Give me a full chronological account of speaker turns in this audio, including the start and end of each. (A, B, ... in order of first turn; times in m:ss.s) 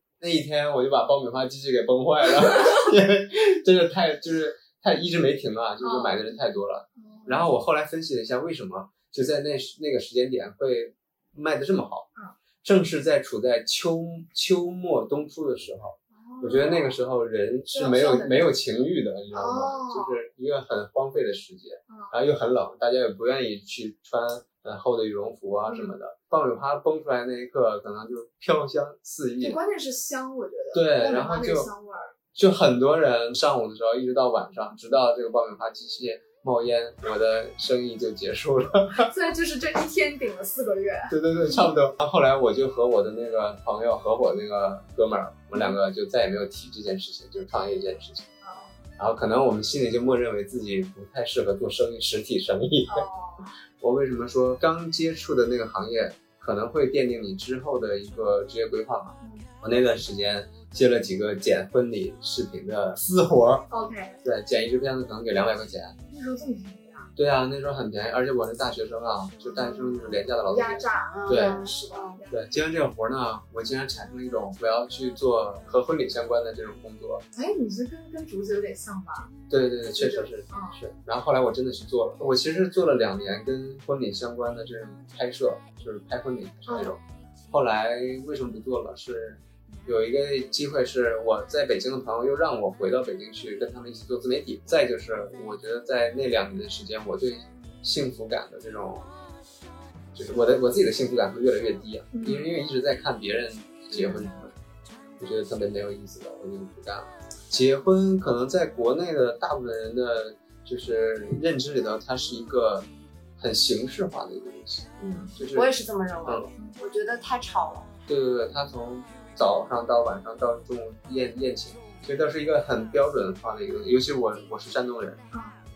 0:00.2-0:12.1 A
0:05.8-0:06.4 B
0:07.0-0:07.5 B
0:12.6-0:29.6 A
0:16.1-0:17.0 B
0:17.7-0:18.4 B
0:19.3-0:20.2 B
0:21.9-0:22.1 B
0:25.7-0:25.9 B
0:29.4-0:32.1 B
0:30.7-0:31.7 A
0:32.4-0:39.1 A
0:39.0-0:41.6 B
0:41.1-0:48.3 A
0:48.4-0:48.8 B
0:49.0-0:53.1 A
0:52.9-0:53.5 B
0:53.8-1:03.7 A
0:59.2-0:59.5 B
1:03.7-1:04.2 B
1:04.2-1:06.0 A
1:06.1-1:07.1 B
1:07.2-1:11.6 A
1:09.5-1:12.3 B
1:11.1-1:12.2 C
1:12.3-1:17.2 A
1:17.3-1:19.3 B
1:19.5-1:39.1 A
1:19.9-1:20.8 B
1:26.7-1:27.0 B
1:40.1-1:44.6 A
1:42.1-1:42.6 B
1:44.0-1:44.3 B
1:45.2-1:55.7 A
1:55.0-1:57.9 C
1:58.1-2:05.2 A
2:05.3-2:05.6 B